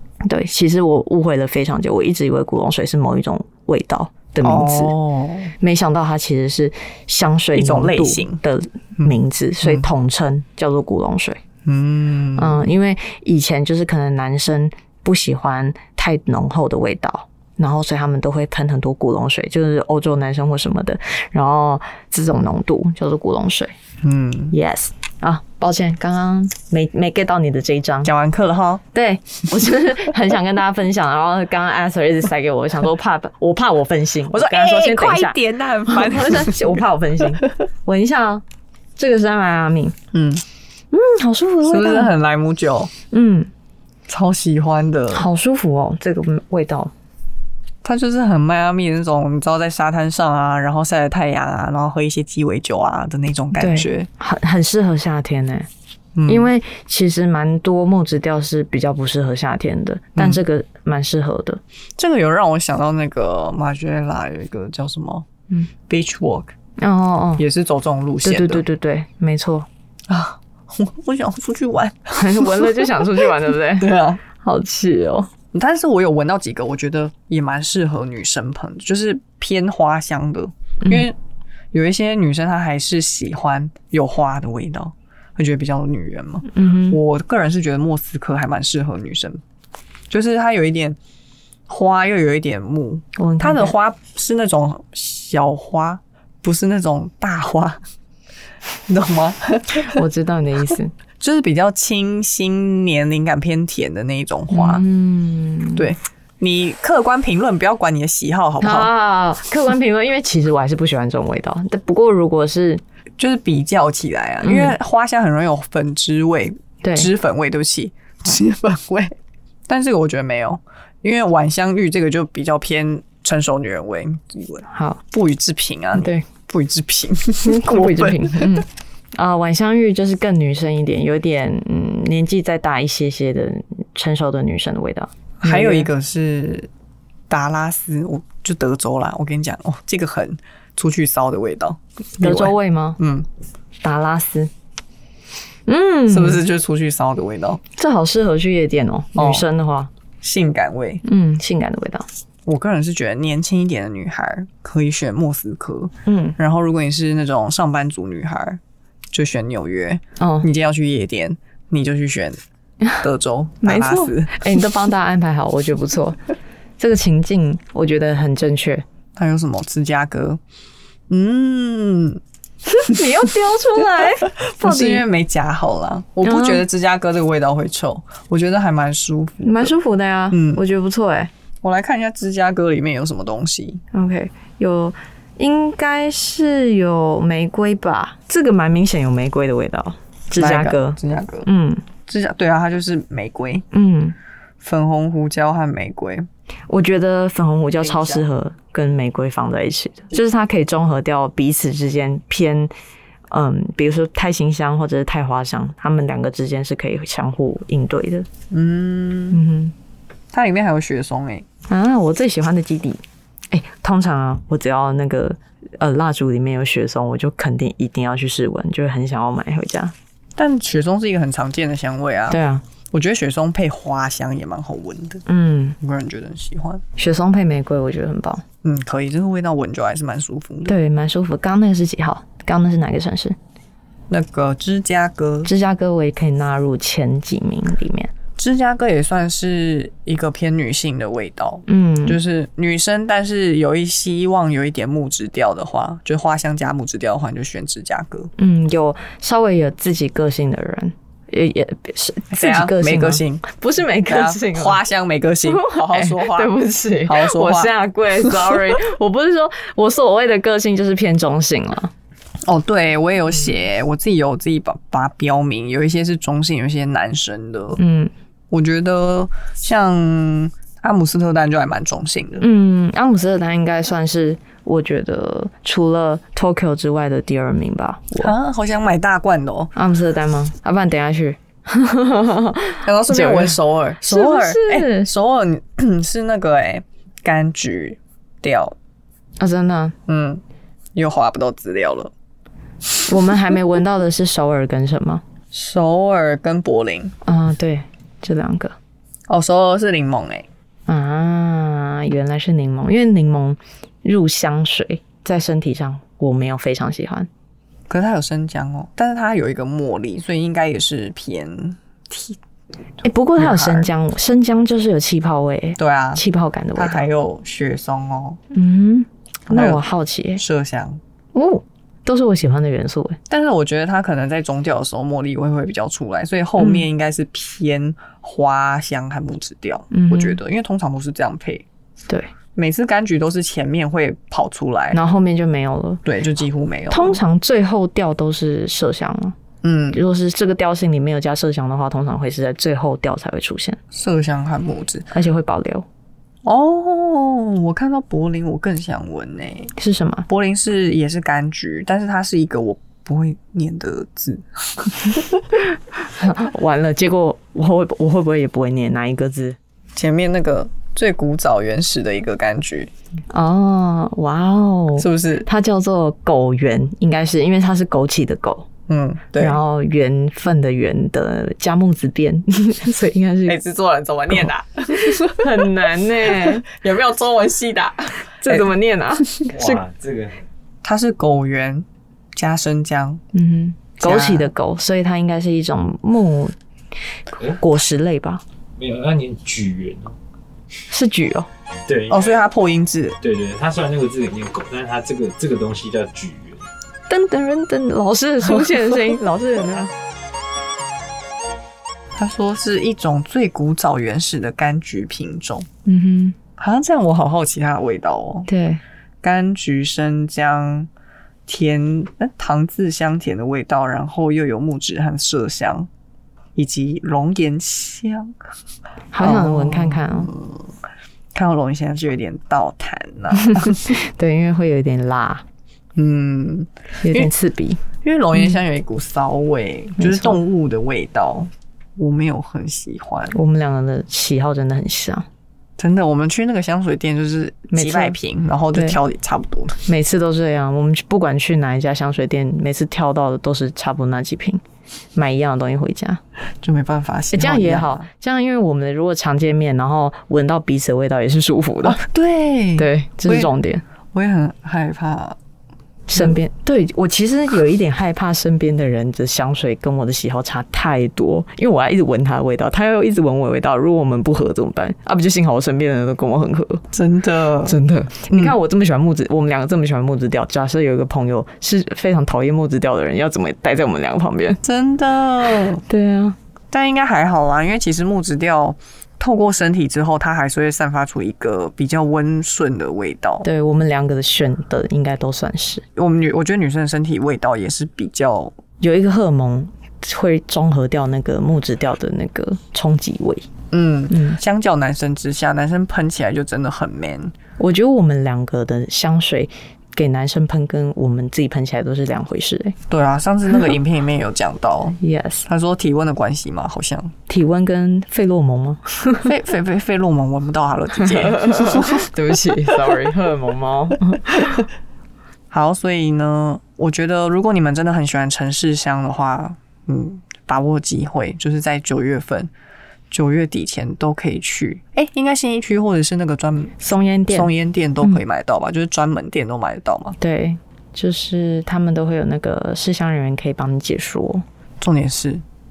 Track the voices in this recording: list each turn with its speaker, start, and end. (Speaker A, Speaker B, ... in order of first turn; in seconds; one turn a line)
Speaker A: 0.3-4.9
Speaker B: 4.4-5.5
Speaker A: 5.6-11.4
Speaker B: 7.5-8.4
Speaker B: 11.7-12.7
Speaker A: 12.4-23.7
Speaker B: 24.0-24.5
Speaker A: 24.5-28.1
Speaker B: 28.0-28.8
Speaker A: 28.9-38.4
Speaker B: 34.3-36.8
Speaker A: 39.0-40.0
Speaker B: 40.1-40.4
Speaker A: 40.9-42.1
Speaker B: 41.6-42.9
Speaker A: 43.1-43.5
Speaker B: 44.1-45.3
Speaker A: 45.1-46.9
Speaker B: 47.8-54.1
Speaker A: 53.5-55.7
Speaker B: 56.2-56.5
Speaker A: 56.3-61.6
Speaker B: 62.0-65.3
Speaker B: 65.9-66.5
Speaker A: 66.8-67.4
Speaker B: 67.4-68.6
Speaker A: 68.2-69.7
Speaker B: 70.1-74.2
Speaker A: 72.2-75.3
Speaker B: 75.5-81.2
Speaker A: 80.8-81.1
Speaker B: 81.7-89.4
Speaker A: 86.5-87.0
Speaker B: 90.1-91.0
Speaker B: 91.7-97.8
Speaker A: 93.2-93.7
Speaker B: 98.9-100.0
Speaker A: 99.8-100.9
Speaker B: 101.2-104.8
Speaker A: 104.5-105.9
Speaker B: 105.8-108.9
Speaker A: 108.6-112.8
Speaker B: 113.2-119.2
Speaker A: 114.4-114.8
Speaker A: 116.8-117.1
Speaker B: 119.7-128.7
Speaker A: 124.7-125.0
Speaker A: 126.0-126.3
Speaker A: 127.4-135.9
Speaker B: 135.4-136.7
Speaker B: 137.3-143.3
Speaker A: 142.2-143.0
Speaker A: 143.8-144.5
Speaker A: 145.7-146.4
Speaker B: 146.1-147.6
Speaker A: 147.8-149.9
Speaker B: 149.2-149.4
Speaker B: 150.2-151.0
Speaker A: 151.0-152.1
Speaker B: 152.5-158.6
Speaker A: 156.1-156.4
Speaker B: 159.1-162.4
Speaker A: 160.2-160.5
Speaker B: 163.0-164.6
Speaker A: 163.6-166.2
Speaker A: 166.8-168.8
Speaker B: 169.2-170.4
Speaker B: 171.1-172.2
Speaker A: 172.7-175.0
Speaker B: 172.9-173.3
Speaker B: 174.2-179.7
Speaker A: 176.2-176.7
Speaker A: 179.4-181.3
Speaker B: 180.3-180.6
Speaker B: 181.6-183.8
Speaker A: 183.9-191.8
Speaker B: 190.4-191.5
Speaker B: 192.1-193.7
Speaker A: 193.7-194.2
Speaker B: 194.6-196.3
Speaker A: 196.7-202.7
Speaker B: 197.8-198.2
Speaker A: 203.3-208.3
Speaker B: 208.5-209.4
Speaker A: 209.3-209.7
Speaker B: 210.3-211.5
Speaker A: 211.7-219.9
Speaker B: 220.4-222.4
Speaker A: 222.3-222.6
Speaker B: 222.9-225.2
Speaker A: 225.3-225.8
Speaker B: 225.8-226.8
Speaker A: 227.0-228.4
Speaker B: 228.6-230.7
Speaker A: 230.7-233.4
Speaker B: 234.1-235.5
Speaker A: 235.5-238.1
Speaker B: 238.4-248.3
Speaker A: 241.7-242.2
Speaker A: 248.4-254.8
Speaker B: 252.3-253.4
Speaker B: 254.1-258.7
Speaker A: 255.5-261.9
Speaker B: 262.4-267.8
Speaker A: 267.8-268.1
Speaker B: 268.5-272.4
Speaker A: 272.4-278.3
Speaker B: 278.2-279.7
Speaker A: 279.8-285.1
Speaker B: 282.8-288.8
Speaker A: 289.4-289.9
Speaker B: 290.1-290.4
Speaker B: 290.9-292.1
Speaker A: 293.1-295.2
Speaker B: 295.5-297.1
Speaker A: 297.2-298.8
Speaker B: 299.3-300.5
Speaker A: 300.9-307.3
Speaker B: 307.9-312.4
Speaker A: 313.0-317.1
Speaker B: 313.4-313.9
Speaker B: 315.8-316.2
Speaker B: 316.8-318.4
Speaker A: 318.5-320.4
Speaker B: 319.5-319.8
Speaker B: 320.4-321.0
Speaker A: 321.3-323.2
Speaker B: 323.3-331.7
Speaker A: 326.6-326.9
Speaker A: 329.9-330.4
Speaker B: 332.6-335.0
Speaker A: 334.9-336.0
Speaker B: 336.1-337.2
Speaker A: 336.9-339.4
Speaker B: 339.6-340.0
Speaker A: 339.9-343.8
Speaker B: 343.9-345.1
Speaker A: 345.1-345.9
Speaker B: 346.4-349.7
Speaker A: 349.8-350.3
Speaker B: 350.3-355.6
Speaker A: 356.1-359.6
Speaker B: 360.0-362.9
Speaker A: 363.3-368.7
Speaker B: 365.0-365.5
Speaker B: 368.9-369.6
Speaker A: 369.4-373.6
Speaker B: 373.5-378.7
Speaker A: 374.3-376.7
Speaker A: 378.4-379.8
Speaker C: 379.5-380.4
Speaker B: 380.8-383.2
Speaker A: 383.3-386.6
Speaker B: 384.0-384.5
Speaker A: 387.6-388.4
Speaker C: 388.8-390.1
Speaker A: 390.9-391.5
Speaker C: 391.9-392.4
Speaker B: 392.1-393.2
Speaker C: 393.2-396.7
Speaker A: 397.1-399.9
Speaker B: 402.2-405.7
Speaker A: 405.9-406.4
Speaker B: 406.6-408.5
Speaker A: 408.5-408.8
Speaker B: 409.2-410.9
Speaker B: 411.5-415.9
Speaker B: 416.6-418.4
Speaker A: 419.1-420.3
Speaker B: 419.2-420.6
Speaker B: 421.3-424.0
Speaker A: 423.3-425.4
Speaker B: 426.0-427.3
Speaker A: 427.0-427.8
Speaker B: 428.0-433.4
Speaker A: 430.0-430.4
Speaker A: 433.3-435.3
Speaker B: 435.8-439.8
Speaker A: 437.7-438.2
Speaker A: 439.9-444.6
Speaker A: 445.1-446.2
Speaker B: 446.6-448.1
Speaker A: 447.3-452.0
Speaker B: 451.8-453.5
Speaker A: 452.8-453.8
Speaker B: 454.1-455.4
Speaker A: 456.1-466.9
Speaker B: 466.9-467.8
Speaker A: 467.6-474.6
Speaker B: 468.3-468.6
Speaker B: 474.6-475.8
Speaker A: 475.8-476.4
Speaker B: 476.7-483.4
Speaker A: 483.4-485.8
Speaker B: 486.0-488.5
Speaker A: 488.8-493.5
Speaker B: 493.7-497.3
Speaker A: 494.1-494.4
Speaker A: 497.6-502.8
Speaker B: 502.9-507.1
Speaker A: 505.0-505.4
Speaker A: 507.3-509.3
Speaker B: 509.2-512.1
Speaker A: 511.0-514.5
Speaker B: 515.5-522.5
Speaker B: 523.1-530.2
Speaker A: 526.8-527.5
Speaker A: 530.2-534.5
Speaker B: 534.8-535.4